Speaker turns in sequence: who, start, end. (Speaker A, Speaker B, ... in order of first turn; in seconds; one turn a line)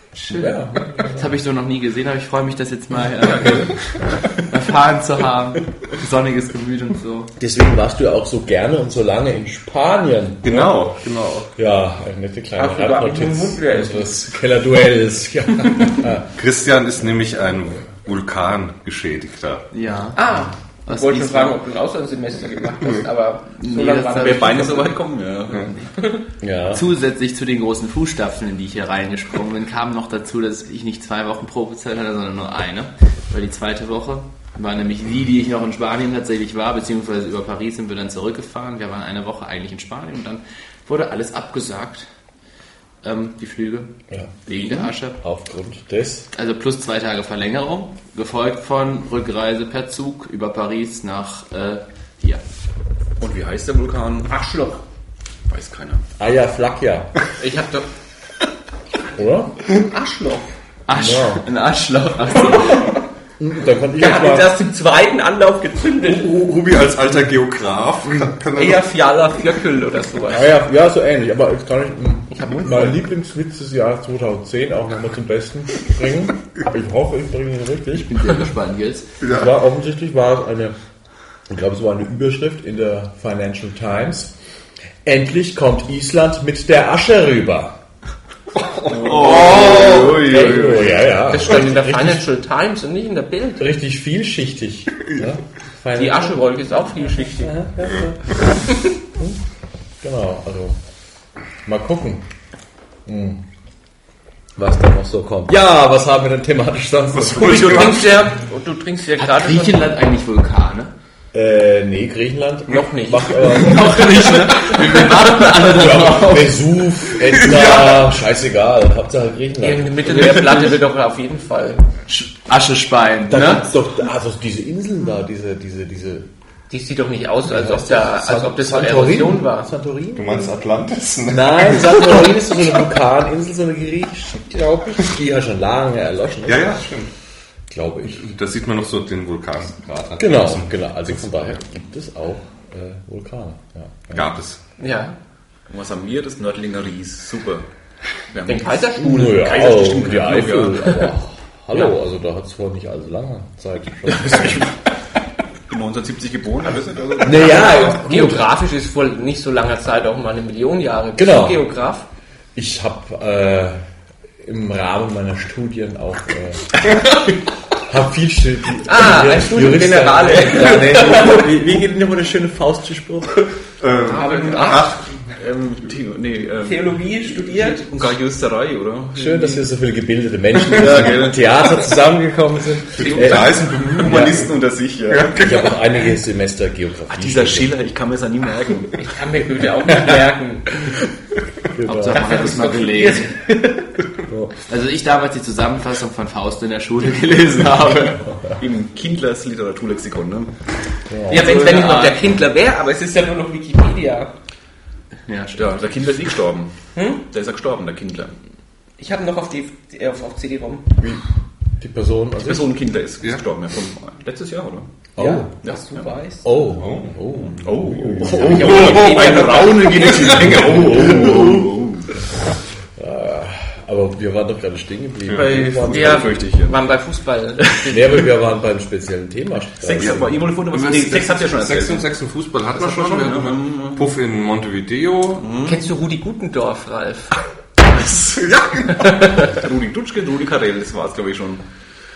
Speaker A: 0.1-7.3
Speaker B: 0.3-1.4
Speaker C: 3.2-3.7
Speaker B: 7.4-10.9
Speaker D: 10.4-11.5
Speaker B: 11.6-16.3
Speaker E: 12.6-14.1
Speaker D: 16.4-19.6
Speaker A: 19.7-20.2
Speaker E: 20.1-24.9
Speaker A: 20.9-21.6
Speaker A: 23.6-25.0
Speaker C: 24.1-25.7
Speaker A: 25.5-25.9
Speaker B: 26.4-26.9
Speaker A: 26.7-42.1
Speaker A: 43.0-43.9
Speaker B: 44.1-46.3
Speaker A: 44.5-45.2
Speaker A: 46.3-52.4
Speaker C: 53.2-54.3
Speaker E: 54.3-54.8
Speaker C: 55.5-56.0
Speaker B: 56.2-57.1
Speaker E: 57.4-57.9
Speaker B: 59.1-59.6
Speaker E: 59.7-60.5
Speaker A: 60.9-62.9
Speaker B: 60.9-61.5
Speaker B: 63.4-64.5
Speaker E: 63.9-66.3
Speaker D: 66.0-68.9
Speaker E: 68.5-70.5
Speaker B: 70.3-78.2
Speaker E: 72.3-73.0
Speaker A: 77.9-79.1
Speaker D: 79.2-79.5
Speaker B: 79.2-80.8
Speaker B: 81.5-84.3
Speaker B: 85.0-87.8
Speaker D: 88.5-90.1
Speaker E: 88.9-93.7
Speaker C: 88.9-90.8
Speaker A: 89.0-90.4
Speaker B: 89.2-92.2
Speaker B: 93.6-96.5
Speaker E: 95.9-97.6
Speaker B: 97.2-99.4
Speaker B: 100.0-100.8
Speaker B: 101.6-102.2
Speaker B: 103.0-103.4
Speaker B: 104.5-108.2
Speaker D: 107.2-108.0
Speaker E: 107.3-109.9
Speaker A: 109.2-110.9
Speaker B: 111.3-120.5
Speaker E: 112.7-113.5
Speaker A: 113.3-116.6
Speaker D: 117.3-118.1
Speaker E: 119.6-121.9
Speaker A: 120.1-120.5
Speaker A: 122.1-123.7
Speaker B: 123.3-126.3
Speaker E: 126.7-129.7
Speaker B: 127.5-130.5
Speaker D: 130.2-132.3
Speaker B: 131.3-136.7
Speaker D: 136.4-137.1
Speaker B: 137.7-138.2
Speaker D: 138.1-141.6
Speaker B: 140.2-144.3
Speaker D: 144.1-144.6
Speaker E: 144.8-145.2
Speaker C: 145.7-147.7
Speaker C: 148.3-151.0
Speaker E: 148.4-149.4
Speaker B: 148.9-154.7
Speaker C: 154.1-154.7
Speaker C: 155.7-158.0
Speaker B: 157.2-158.5
Speaker E: 157.2-162.1
Speaker B: 161.2-161.7
Speaker B: 162.5-163.8
Speaker B: 164.4-167.1
Speaker B: 167.8-173.5
Speaker E: 168.8-171.5
Speaker D: 173.8-175.1
Speaker C: 174.0-179.7
Speaker E: 174.1-175.0
Speaker E: 176.6-178.1
Speaker B: 179.1-184.5
Speaker C: 180.7-181.5
Speaker D: 182.9-184.6
Speaker C: 183.1-185.4
Speaker D: 185.1-185.8
Speaker B: 185.4-187.7
Speaker C: 187.1-189.0
Speaker E: 188.9-191.0
Speaker B: 189.9-190.2
Speaker B: 191.7-192.3
Speaker A: 191.8-193.3
Speaker E: 192.1-193.9
Speaker B: 194.3-194.5
Speaker A: 194.7-198.2
Speaker B: 198.2-198.5
Speaker C: 198.6-200.5
Speaker B: 201.1-201.5
Speaker E: 201.3-204.3
Speaker A: 201.3-202.2
Speaker A: 205.3-205.8
Speaker C: 205.5-208.3
Speaker E: 206.9-207.2
Speaker E: 209.0-211.0
Speaker B: 211.8-212.8
Speaker C: 212.4-214.9
Speaker B: 215.2-215.5
Speaker E: 215.2-216.6
Speaker C: 215.6-216.1
Speaker B: 216.4-219.3
Speaker D: 216.7-217.2
Speaker C: 217.3-222.1
Speaker E: 218.3-220.5
Speaker B: 220.4-221.7
Speaker B: 222.9-226.4
Speaker D: 225.3-225.7
Speaker C: 225.3-226.8
Speaker E: 225.9-228.3
Speaker B: 227.8-230.3
Speaker C: 229.8-232.1
Speaker D: 230.0-235.5
Speaker C: 232.7-234.2
Speaker C: 235.4-235.8
Speaker E: 235.6-237.3
Speaker C: 237.9-238.3
Speaker D: 238.1-239.2
Speaker C: 239.4-241.6